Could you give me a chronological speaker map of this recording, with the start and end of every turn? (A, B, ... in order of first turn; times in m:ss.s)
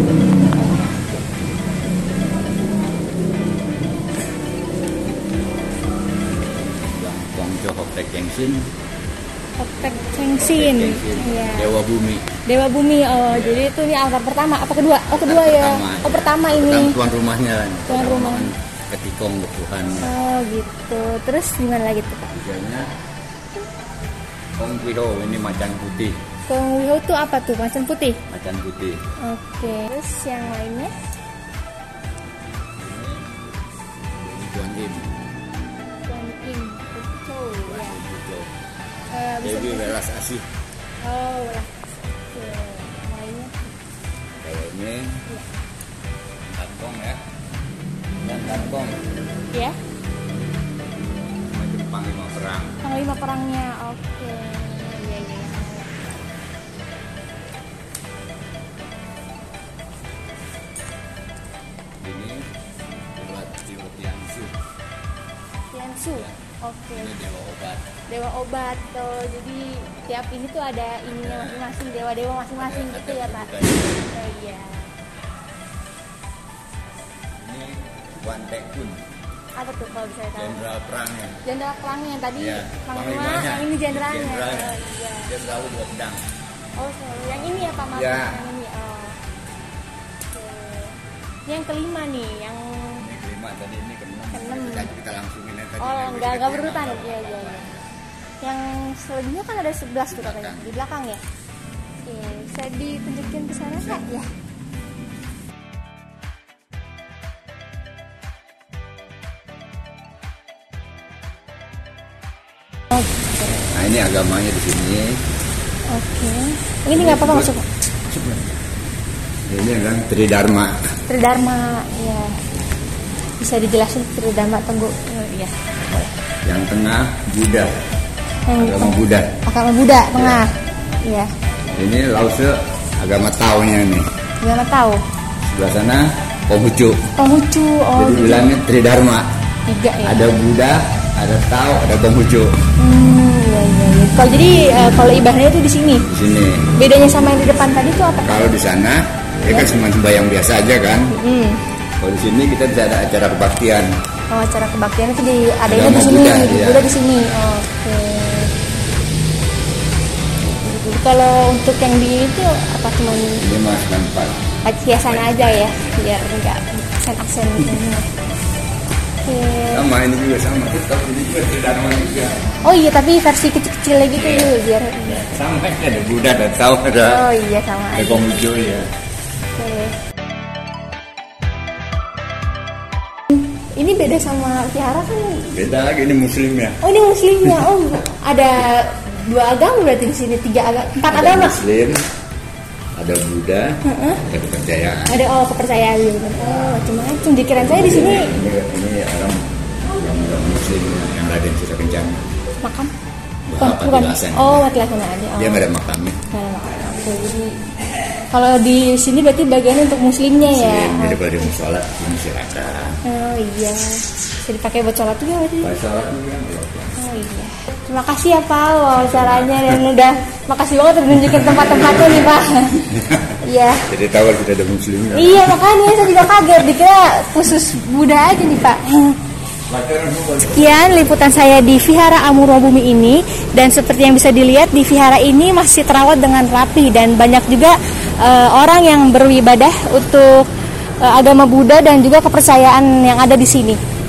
0:00.6-0:01.1 A
0:06.7-0:08.7 B
0:09.6-0:11.7 A
0:10.4-0:12.3 B
0:12.4-0:17.0 A
0:13.2-0:13.7 B
0:15.1-0:20.1 B
0:17.9-0:18.5 A
0:20.0-0:22.3 A
0:22.3-0:22.9 B
0:24.6-0:26.2 B
0:26.5-0:28.2 A
0:28.3-0:29.0 B
0:29.2-0:30.9 A
0:32.8-0:33.3 B
0:34.2-0:35.2 B
0:36.1-0:38.0 A
0:37.7-0:38.5 B
0:39.1-0:40.0 A
0:39.4-0:40.5 B
0:41.0-0:41.8 A
0:42.3-0:43.7 A
0:44.4-0:45.2 B
0:46.5-0:47.2 B
0:48.2-0:49.0 B
0:49.5-0:49.8 A
0:51.5-0:52.8 B
0:52.8-0:56.1 A
1:02.0-1:02.5 B
1:03.2-1:04.6 B
1:05.7-1:07.1 A
1:06.9-1:07.9 B
1:08.1-1:14.9 A
1:11.1-1:11.6 B
1:12.6-1:14.2 B
1:17.4-1:19.0 B
1:19.6-1:20.6 A
1:20.4-1:21.4 B
1:21.4-1:25.3 A
1:22.4-1:26.2 B
1:26.8-1:29.2 A
1:27.8-1:28.4 B
1:30.3-1:33.0 A
1:33.0-1:37.9 B
1:34.3-1:34.9 A
1:35.8-1:37.7 A
1:38.4-1:41.2 A
1:40.1-1:40.7 B
1:42.1-1:44.3 A
1:52.9-1:53.6 A
1:53.7-1:55.2 B
1:55.9-1:57.6 A
1:56.9-1:57.5 B
1:58.1-1:58.6 B
1:59.5-2:00.8 B
2:01.1-2:02.4 A
2:03.4-2:05.6 A
2:06.4-2:07.7 B
2:08.5-2:11.3 A
2:08.6-2:09.4 B
2:10.2-2:10.4 B
2:11.7-2:14.1 B
2:14.4-2:15.0 A
2:15.4-2:17.1 B
2:17.2-2:18.5 A
2:18.0-2:19.3 B
2:19.7-2:20.3 A
2:20.0-2:22.6 B
2:22.8-2:26.1 A
2:26.1-2:26.7 B
2:26.7-2:28.5 A
2:28.2-2:31.2 B
2:29.4-2:29.7 A
2:31.1-2:31.6 A
2:32.0-2:33.9 B
2:34.3-2:38.5 A
2:35.7-2:36.9 B
2:40.5-2:43.4 A
2:43.4-2:44.4 B
2:44.6-2:48.1 A
2:49.2-2:49.8 A
2:49.7-2:52.5 B
2:52.6-2:55.3 A
2:54.1-2:54.6 B
2:55.1-2:57.3 B
2:57.0-2:58.3 A
2:57.9-2:58.9 B
2:59.6-3:00.0 A
3:03.3-3:05.5 A
3:05.5-3:06.8 B
3:06.8-3:11.6 A
3:11.1-3:12.0 B
3:13.0-3:15.2 B
3:13.8-3:14.2 A
3:15.1-3:18.3 A
3:17.6-3:22.2 B
3:22.6-3:22.9 A
3:23.5-3:24.7 B
3:23.6-3:25.7 A
3:25.4-3:26.2 B
3:26.3-3:27.6 A
3:28.3-3:31.2 A
3:30.4-3:33.0 B
3:33.0-3:35.8 A
3:35.6-3:36.9 B
3:37.0-3:43.9 A
3:39.0-3:39.8 B
3:41.2-3:42.0 B
3:42.9-3:43.4 B
3:43.9-3:45.6 B
3:45.1-3:49.2 A
3:49.7-3:51.2 B
3:50.4-4:00.5 A
4:01.0-4:03.8 A